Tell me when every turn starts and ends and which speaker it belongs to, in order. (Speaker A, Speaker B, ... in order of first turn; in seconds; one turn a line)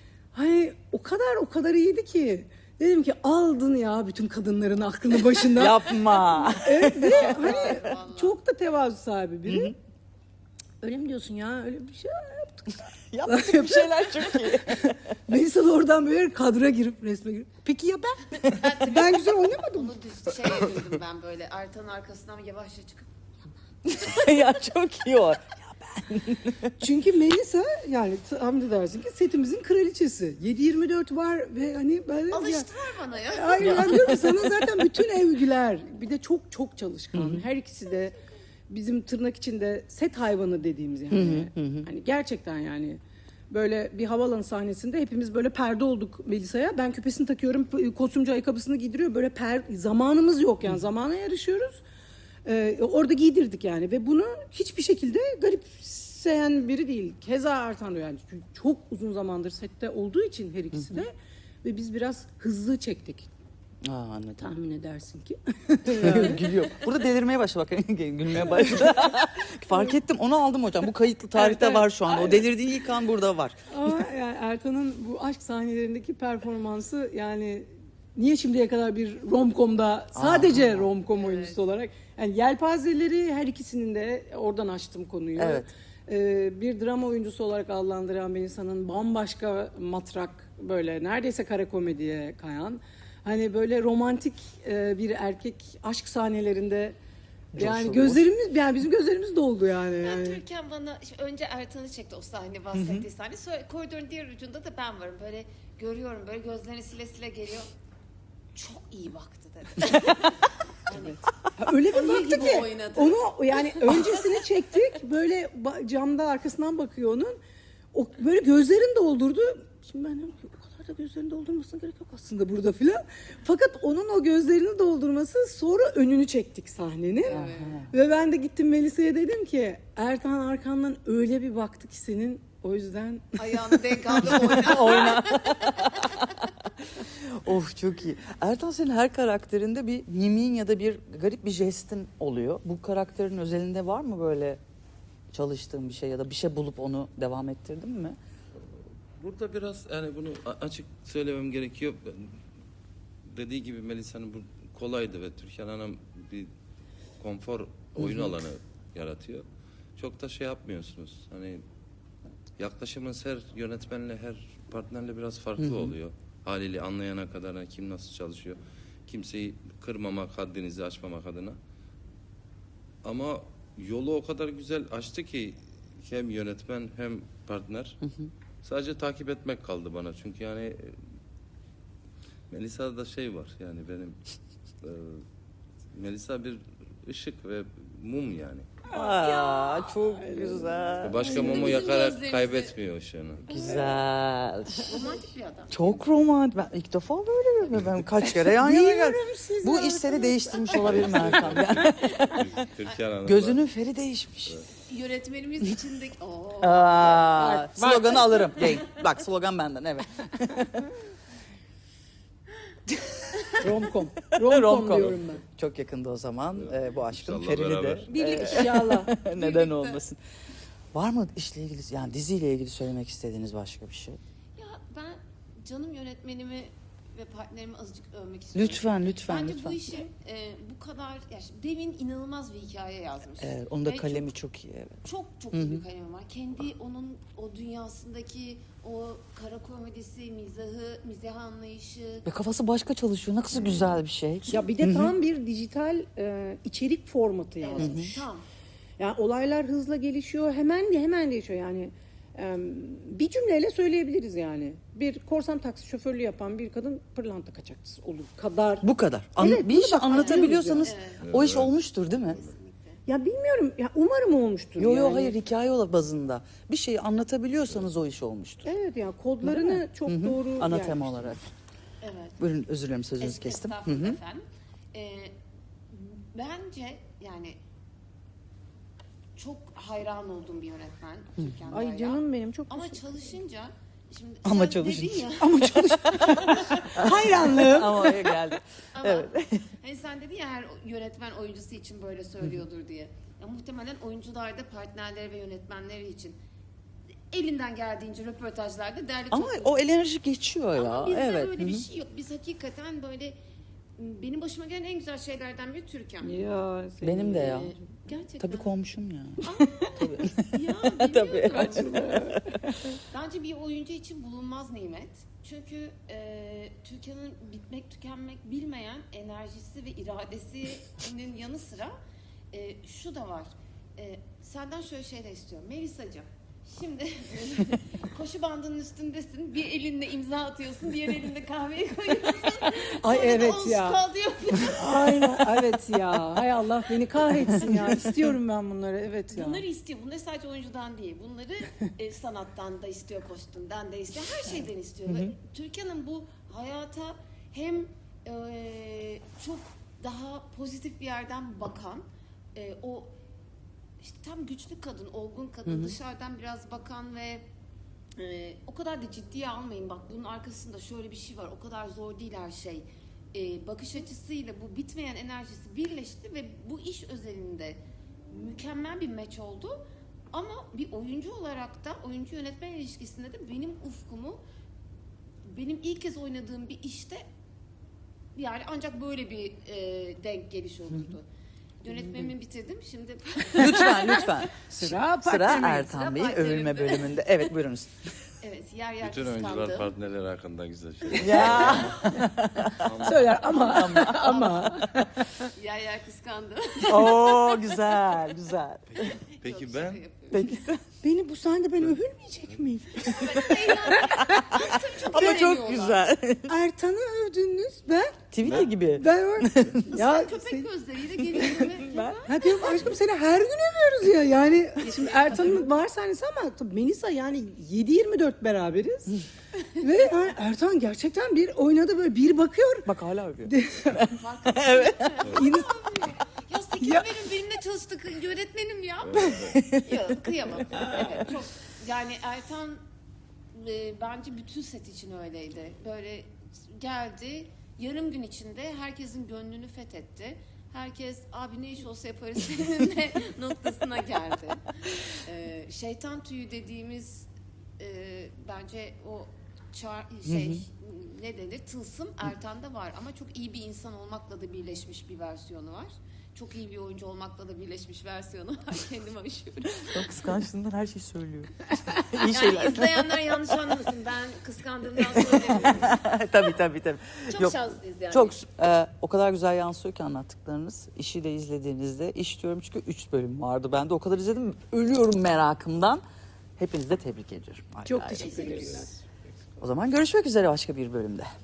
Speaker A: 0.3-5.9
Speaker B: 5.5-7.9
Speaker A: 6.6-9.7
Speaker C: 7.1-8.4
Speaker B: 9.5-9.8
Speaker A: 10.8-19.9
Speaker B: 13.1-15.0
Speaker C: 18.5-23.1
Speaker B: 23.9-26.7
Speaker A: 26.8-32.7
Speaker C: 32.3-34.1
Speaker A: 33.3-38.2
Speaker B: 33.6-34.7
Speaker B: 37.1-37.5
Speaker A: 38.7-51.8
Speaker B: 41.1-41.9
Speaker A: 52.5-63.3
Speaker B: 60.7-61.0
Speaker B: 63.8-64.5
Speaker A: 64.4-66.7
Speaker B: 65.9-74.0
Speaker A: 68.4-68.9
Speaker A: 71.3-72.5
Speaker A: 73.7-97.0
Speaker B: 80.2-80.8
Speaker C: 81.1-81.6
Speaker B: 85.4-85.7
Speaker B: 97.5-98.2
Speaker A: 97.5-100.4
Speaker C: 100.0-107.7
Speaker B: 102.8-103.0
Speaker C: 108.5-111.2
Speaker A: 110.9-117.4
Speaker C: 111.9-114.1
Speaker A: 117.9-133.8
Speaker C: 127.2-127.8
Speaker B: 127.3-127.9
Speaker C: 133.4-135.9
Speaker B: 134.2-136.2
Speaker B: 136.9-144.6
Speaker B: 145.3-148.2
Speaker D: 149.2-152.4
Speaker D: 153.3-156.5
Speaker D: 157.2-159.4
Speaker B: 158.0-158.4
Speaker D: 160.0-161.6
Speaker D: 162.6-171.6
Speaker B: 165.6-165.9
Speaker D: 173.0-178.0
Speaker B: 178.0-178.3
Speaker D: 178.6-181.0
Speaker D: 182.5-184.2
Speaker D: 184.8-185.2
Speaker D: 185.9-188.7
Speaker A: 188.9-191.8
Speaker B: 188.9-191.6
Speaker D: 191.0-193.7
Speaker C: 191.4-192.8
Speaker B: 193.5-195.0
Speaker A: 193.6-193.9
Speaker C: 194.9-196.1
Speaker B: 195.7-202.6
Speaker A: 198.4-201.6
Speaker D: 200.7-203.6
Speaker C: 202.0-202.4
Speaker B: 203.2-204.6
Speaker C: 204.9-207.7
Speaker B: 206.6-210.7
Speaker A: 207.5-208.2
Speaker A: 213.6-215.4
Speaker B: 214.4-220.2
Speaker D: 216.6-218.1
Speaker A: 218.1-219.1
Speaker C: 218.2-218.7
Speaker C: 219.3-220.0
Speaker B: 220.9-224.2
Speaker C: 224.6-234.3
Speaker B: 228.6-229.8
Speaker B: 233.4-235.8
Speaker C: 235.0-242.3
Speaker B: 242.3-245.1
Speaker A: 244.5-248.2
Speaker C: 247.6-248.4
Speaker B: 247.8-248.2
Speaker A: 249.0-258.9
Speaker B: 258.8-262.4
Speaker A: 259.4-260.9
Speaker C: 260.1-261.3
Speaker D: 261.2-261.8
Speaker C: 262.1-263.0
Speaker A: 263.1-265.4
Speaker B: 264.8-268.7
Speaker A: 268.6-271.4
Speaker B: 269.4-271.5
Speaker C: 272.0-272.5
Speaker B: 272.4-274.2
Speaker C: 273.2-275.4
Speaker C: 275.9-277.6
Speaker C: 279.4-287.1
Speaker A: 281.7-283.3
Speaker B: 284.4-289.6
Speaker A: 286.1-288.2
Speaker C: 288.9-296.4
Speaker C: 297.3-299.7
Speaker B: 299.3-301.9
Speaker C: 300.8-303.4
Speaker C: 304.0-306.4
Speaker A: 306.2-307.8
Speaker B: 307.0-307.8
Speaker C: 307.4-308.7
Speaker B: 308.4-312.7
Speaker C: 309.4-312.1
Speaker A: 311.5-312.4
Speaker C: 313.1-322.0
Speaker C: 322.5-335.4
Speaker A: 333.0-334.0
Speaker A: 334.6-339.6
Speaker C: 339.3-353.2
Speaker C: 354.0-357.4
Speaker B: 355.7-356.0
Speaker C: 358.2-369.8
Speaker C: 370.3-374.4
Speaker C: 375.5-377.2
Speaker C: 378.4-381.2
Speaker C: 381.8-384.3
Speaker B: 383.6-387.9
Speaker A: 383.6-384.2
Speaker A: 384.7-385.9
Speaker C: 385.8-387.5
Speaker C: 388.4-389.9
Speaker D: 389.0-392.1
Speaker B: 391.2-392.8
Speaker A: 391.2-391.6
Speaker C: 391.4-392.0
Speaker D: 392.8-393.7
Speaker A: 393.0-395.4
Speaker B: 393.5-394.5
Speaker C: 394.0-394.7
Speaker C: 395.6-397.8
Speaker B: 396.9-398.8
Speaker D: 398.9-400.0
Speaker C: 399.0-400.5
Speaker B: 400.3-400.8
Speaker A: 401.0-403.8
Speaker C: 403.0-406.1
Speaker B: 403.2-406.6
Speaker A: 406.5-408.3
Speaker B: 408.3-409.9
Speaker D: 408.4-408.7
Speaker A: 408.9-410.7
Speaker C: 409.9-412.4
Speaker B: 411.3-412.2
Speaker A: 412.3-419.2
Speaker C: 414.8-415.7
Speaker A: 419.8-422.9
Speaker B: 422.9-425.1
Speaker A: 423.5-424.1
Speaker C: 424.2-432.8
Speaker A: 425.3-425.7
Speaker A: 426.8-427.1
Speaker D: 429.1-429.6
Speaker B: 429.4-430.2
Speaker B: 430.7-431.1
Speaker C: 433.5-460.2
Speaker B: 450.3-450.6
Speaker B: 459.9-463.1
Speaker C: 462.1-466.0
Speaker B: 465.2-476.0
Speaker C: 467.3-468.4
Speaker B: 476.6-478.8
Speaker A: 477.9-478.9
Speaker C: 478.2-478.8
Speaker B: 479.6-481.3